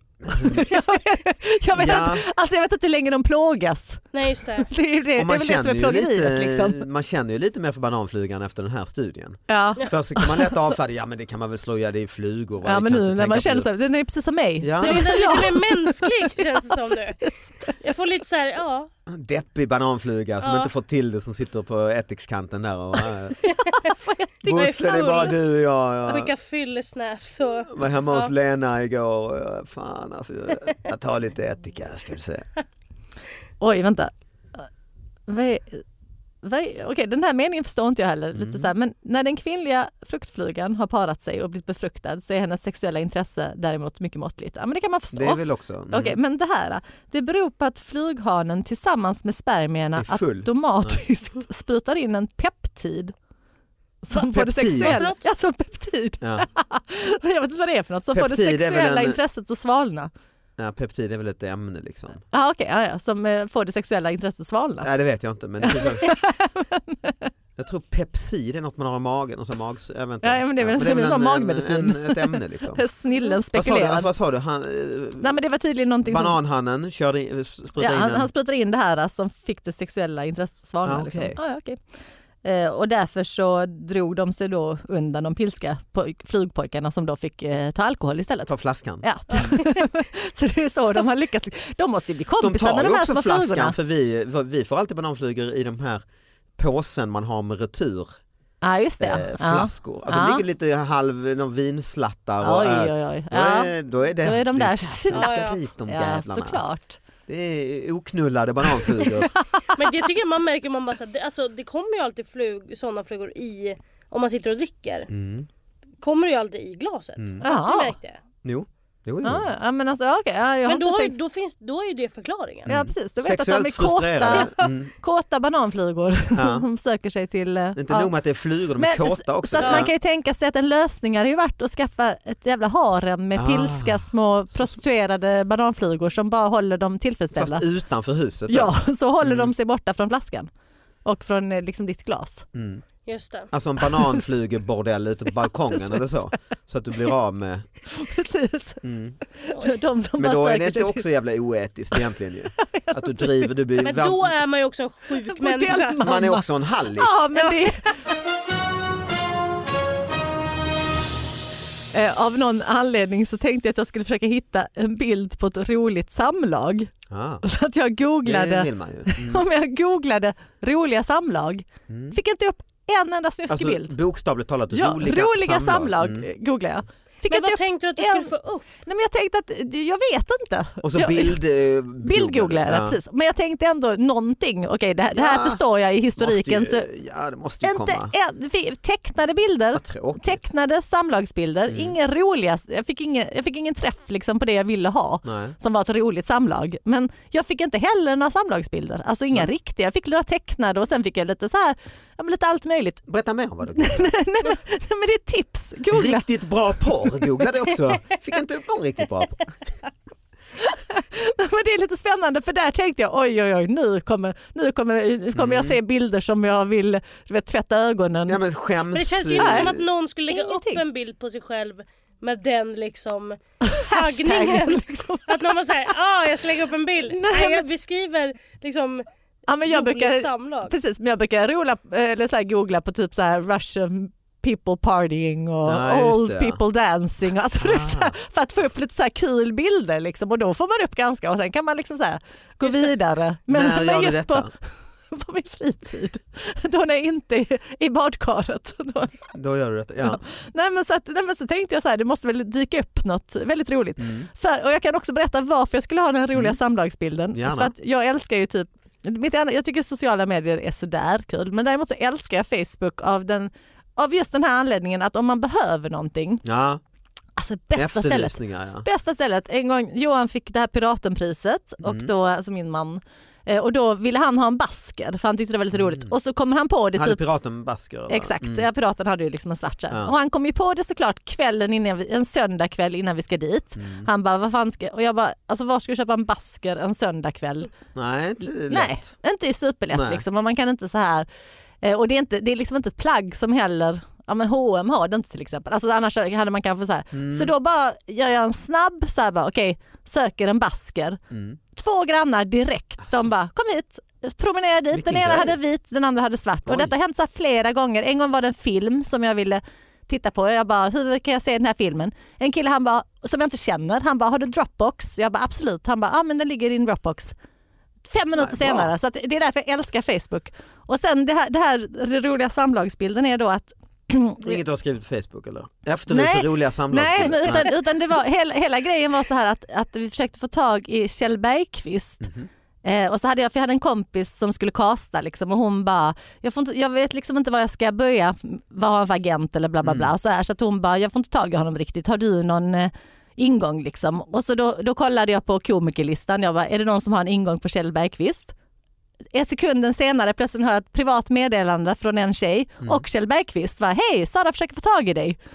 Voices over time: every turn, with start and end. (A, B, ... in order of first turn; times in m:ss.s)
0:00.2-0:00.6 A
0:00.3-0:06.8 B
0:01.7-0:02.2 A
0:04.1-0:04.7 C
0:05.2-0:13.7 A
0:09.5-0:10.5 B
0:12.6-0:17.8 B
0:14.6-0:15.2 A
0:14.8-0:17.2 C
0:17.8-0:18.9 C
0:19.1-0:23.4 A
0:20.4-0:20.7 C
0:23.4-0:23.9 C
0:23.6-0:25.0 B
0:24.4-0:26.3 A
0:24.5-0:25.4 C
0:26.1-0:28.3 C
0:27.7-0:32.5 A
0:33.6-0:34.7 B
0:35.3-0:35.8 B
0:36.4-0:45.4 B
0:38.3-0:38.7 A
0:45.1-0:46.2 A
0:45.9-0:53.1 B
0:50.0-0:51.0 A
0:54.0-1:00.1 B
0:54.3-0:55.0 A
0:54.7-0:55.2 C
0:56.2-0:56.5 A
0:58.1-0:59.2 A
1:00.6-1:02.2 A
1:02.3-1:04.9 B
1:04.8-1:06.1 A
1:05.6-1:07.3 B
1:07.6-1:12.8 A
1:10.2-1:14.1 B
1:13.5-1:15.3 A
1:15.2-1:16.4 B
1:16.0-1:18.3 A
1:17.8-1:21.8 B
1:20.8-1:21.4 A
1:22.4-1:33.8 B
1:28.5-1:29.5 A
1:29.3-1:29.8 C
1:32.4-1:36.0 A
1:36.6-1:38.2 A
1:38.6-1:40.4 B
1:39.0-1:46.6 A
1:42.4-1:47.0 B
1:45.1-1:45.6 C
1:47.3-1:49.3 A
1:48.7-1:49.9 B
1:49.7-1:55.1 C
1:55.1-1:55.5 A
1:56.0-1:58.2 C
1:57.4-1:57.9 B
1:58.4-1:59.5 A
1:59.2-2:01.1 B
2:00.6-2:02.7 C
2:02.6-2:04.9 A
2:02.6-2:08.1 B
2:04.3-2:04.7 C
2:06.3-2:06.6 A
2:07.8-2:09.9 A
2:08.8-2:17.6 B
2:09.6-2:09.9 C
2:13.4-2:14.8 A
2:17.3-2:19.5 A
2:18.5-2:20.5 B
2:21.0-2:22.4 B
2:22.5-2:22.8 A
2:23.0-2:23.5 C
2:23.5-2:27.7 A
2:25.7-2:26.2 B
2:27.9-2:28.8 B
2:28.8-2:29.2 A
2:29.4-2:31.0 B
2:30.2-2:34.3 A
2:31.9-2:33.5 B
2:33.8-2:36.0 C
2:35.2-2:38.0 B
2:36.0-2:37.2 A
2:37.3-2:37.9 C
2:41.9-2:46.9 B
2:47.1-2:47.4 A
2:47.4-2:53.9 B
2:48.2-2:49.4 A
2:51.9-2:52.2 A
2:53.5-2:56.3 A
2:54.7-3:01.4 B
2:57.3-2:58.6 C
3:00.8-3:03.0 A
3:02.0-3:06.9 B
3:05.1-3:05.6 A
3:06.2-3:08.1 A
3:07.6-3:23.0 B
3:09.7-3:10.4 A
3:15.2-3:15.6 A
3:23.0-3:24.1 A
3:23.7-3:26.3 B
3:25.9-3:29.5 A
3:30.6-3:38.4 B
3:35.4-3:35.8 A
3:38.3-3:39.8 A
3:38.9-3:49.0 C
3:39.4-3:39.7 B
3:40.3-3:40.8 B
3:43.6-3:45.9 B
3:47.1-3:47.6 B
3:49.5-4:09.2 B
3:49.7-3:50.7 C
3:55.6-3:56.6 A
3:57.6-3:58.1 A
4:02.6-4:02.9 C
4:03.5-4:04.5 A
4:09.3-4:10.2 A
4:10.0-4:26.4 B
4:14.0-4:14.3 A
4:17.3-4:17.7 A
4:26.4-4:26.8 A
4:27.4-4:37.2 B
4:27.7-4:28.8 A
4:31.8-4:32.1 A
4:35.7-4:36.1 A
4:37.0-4:38.6 A
4:38.1-4:47.7 B
4:43.8-4:44.1 A
4:47.9-4:49.1 A
4:48.7-4:51.3 B
4:49.9-4:50.2 A
4:51.8-5:01.2 B
4:57.1-4:57.5 A
5:01.3-5:01.6 A
5:01.7-5:17.3 B
5:04.9-5:05.6 A
5:06.6-5:06.9 A
5:18.0-5:24.6 B
5:18.4-5:18.9 A
5:24.4-5:27.7 A
5:26.1-5:32.3 B
5:32.2-5:32.5 A
5:32.8-5:48.5 B
5:39.8-5:40.1 A
5:49.3-5:55.4 B